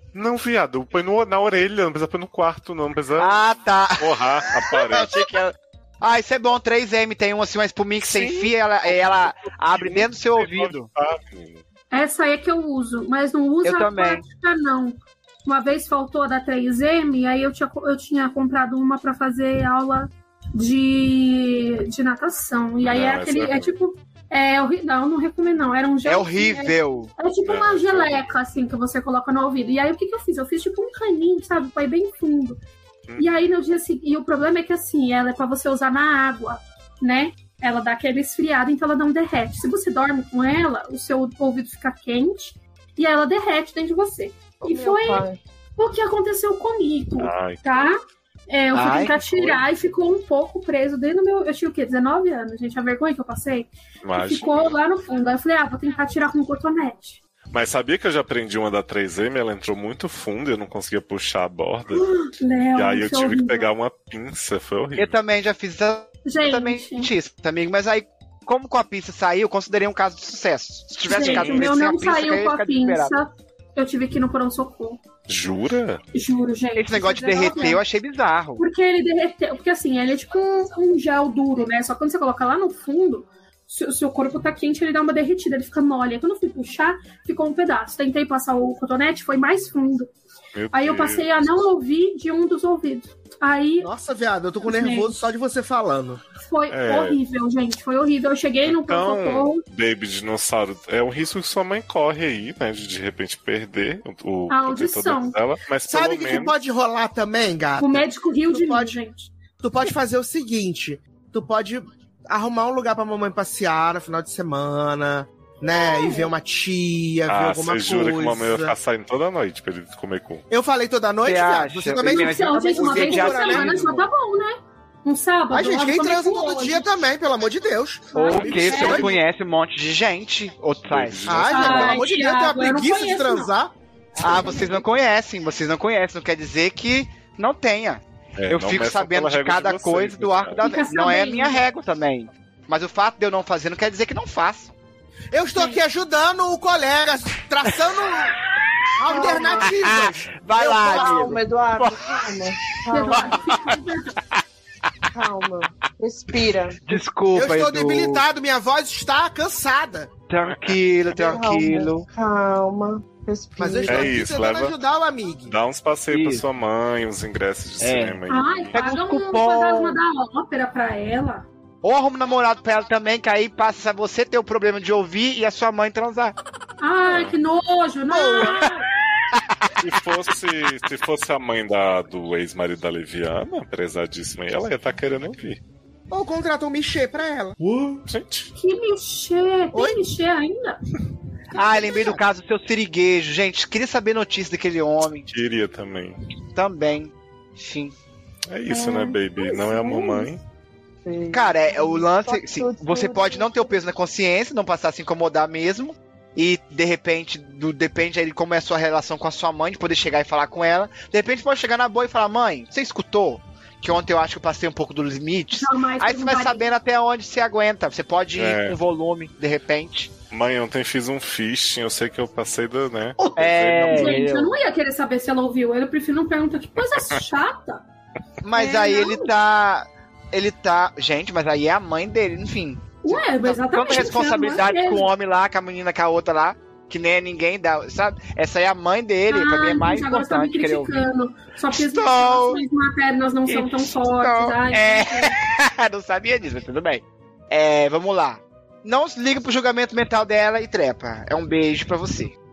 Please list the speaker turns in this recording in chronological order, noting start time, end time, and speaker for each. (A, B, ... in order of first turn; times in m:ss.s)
0:00.1-0:03.4 A
0:03.2-0:10.9 B
0:04.0-0:05.4 A
0:08.0-0:11.6 A
0:11.9-0:32.6 C
0:13.6-0:14.2 B
0:22.8-0:23.7 A
0:26.0-0:27.1 B
0:27.4-0:28.3 A
0:33.1-0:33.4 A
0:33.2-0:45.3 C
0:44.6-0:45.4 D
0:45.8-0:57.2 C
0:47.2-0:47.9 A
0:48.7-0:49.1 B
0:49.1-0:49.6 A
0:54.0-0:54.8 A
0:57.5-1:02.1 A
1:01.9-1:03.7 C
1:02.8-1:05.2 A
1:05.0-1:13.2 B
1:06.2-1:07.1 C
1:11.1-1:15.0 C
1:11.1-1:11.7 A
1:15.3-1:16.0 A
1:16.1-1:17.8 C
1:16.8-1:18.6 B
1:18.6-1:30.1 C
1:30.6-1:31.6 A
1:30.7-1:33.9 C
1:33.8-1:36.2 E
1:34.6-1:35.2 C
1:36.4-1:39.6 C
1:36.7-1:37.2 A
1:38.7-1:46.5 A
1:44.5-1:45.4 C
1:45.9-1:49.0 E
1:46.3-1:46.5 C
1:47.8-1:49.3 C
1:49.6-1:58.7 E
1:55.7-1:56.3 C
1:57.3-2:00.4 A
2:00.5-2:03.9 E
2:01.2-2:04.1 B
2:02.0-2:06.9 C
2:05.5-2:09.2 E
2:08.2-2:09.1 C
2:08.2-2:12.0 B
2:10.8-2:11.9 A
2:11.3-2:14.5 E
2:11.5-2:13.5 C
2:14.2-2:24.7 B
2:18.4-2:20.8 A
2:20.6-2:21.6 C
2:25.3-2:28.4 E
2:25.6-2:25.8 C
2:28.1-2:33.7 B
2:29.0-2:31.4 E
2:29.1-2:29.7 D
2:30.8-2:33.4 D
2:32.9-2:34.2 C
2:35.1-2:37.0 D
2:36.9-2:38.2 B
2:37.3-2:40.1 E
2:40.3-2:42.1 B
2:40.5-2:40.8 A
2:41.1-2:44.2 D
2:43.6-2:45.6 E
2:43.9-2:44.7 A
2:45.5-2:48.8 A
2:46.1-2:46.4 B
2:47.8-2:48.2 B
2:48.3-2:51.5 C
2:48.7-2:50.0 B
2:51.8-2:56.4 B
2:56.8-2:58.8 C
2:57.1-2:57.4 A
2:58.1-2:58.7 E
2:59.3-2:59.7 B
2:59.8-3:05.6 A
3:06.1-3:08.0 E
3:08.1-3:08.5 A
3:08.6-3:10.8 C
3:09.7-3:10.0 E
3:11.5-3:15.3 B
3:11.6-3:12.2 E
3:15.3-3:16.2 A
3:16.6-3:17.9 B
3:18.5-3:20.4 A
3:18.7-3:20.3 C
3:21.0-3:23.8 D
3:21.3-3:40.1 B
3:35.6-3:36.7 C
3:38.3-3:38.8 A
3:40.3-3:44.2 A
3:43.2-3:44.5 B
3:43.8-3:47.8 C
3:48.4-4:01.0 B
3:48.5-3:49.3 C
3:53.0-3:55.1 C
3:59.3-4:05.4 C
4:01.7-4:02.6 B
4:03.5-4:12.4 B